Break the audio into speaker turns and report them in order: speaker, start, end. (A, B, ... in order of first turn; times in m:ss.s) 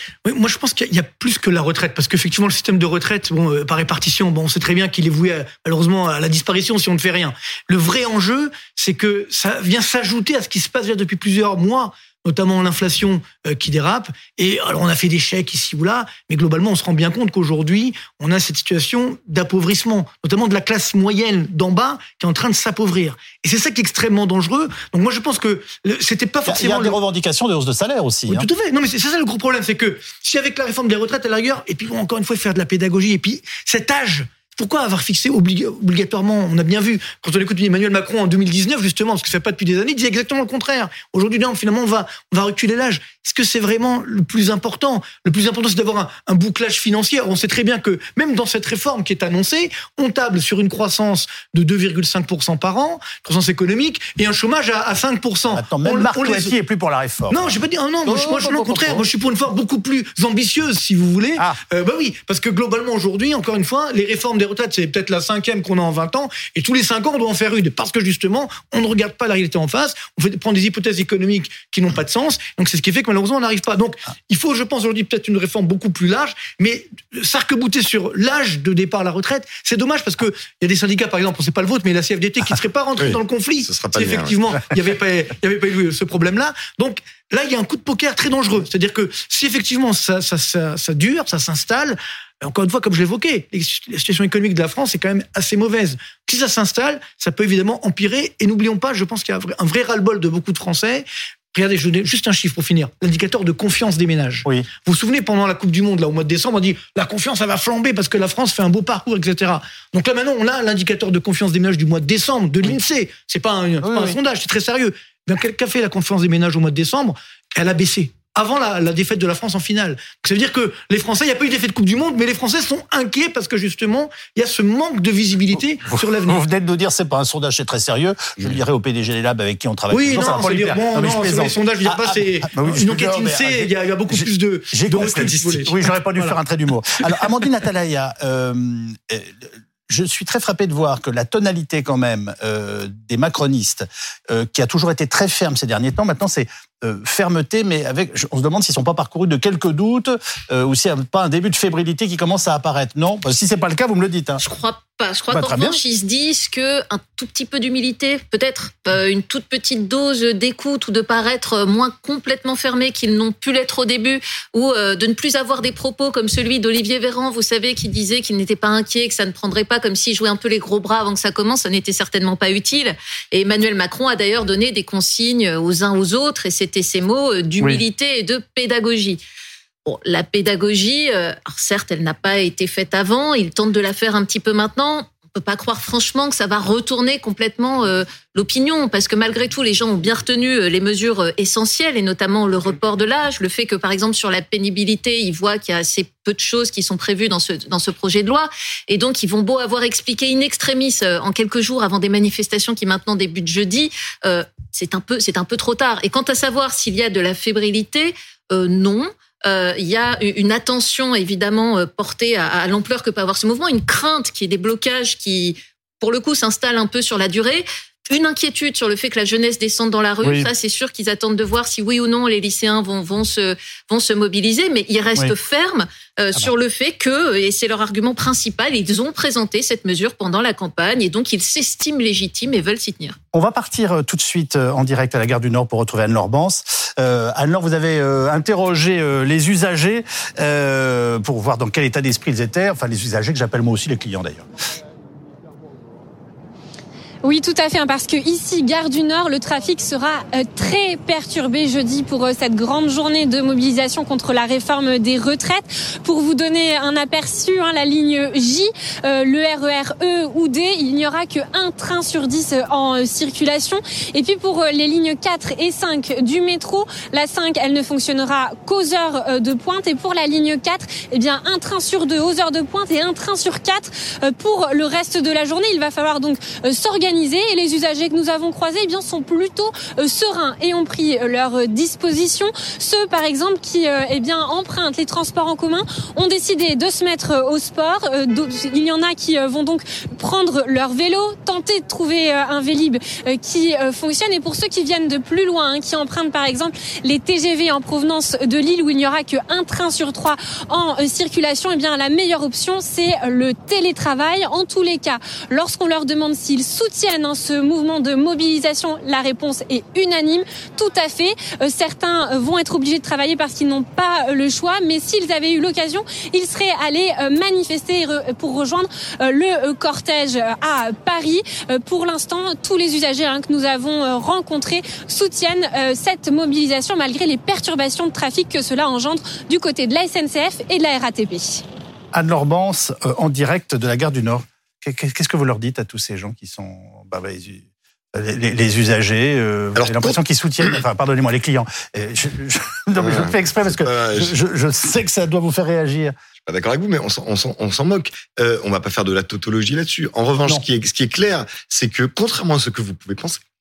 0:00.2-0:27.0 A
0:26.5-0:28.5 B
0:28.3-0:56.5 A
0:55.5-0:59.1 B
0:57.3-2:06.4 A
1:23.0-1:24.6 C
1:53.8-1:54.2 B
2:05.9-2:34.4 B
2:09.9-2:16.4 A
2:34.4-2:59.2 D
2:35.3-2:35.8 B
2:59.9-3:53.2 D
3:40.2-3:40.5 B
3:53.3-4:04.4 B
4:07.2-5:31.6 E
5:32.1-5:37.6 B
5:38.1-5:46.1 B
5:39.8-5:40.2 C
5:43.0-5:44.3 C
5:46.4-5:53.4 C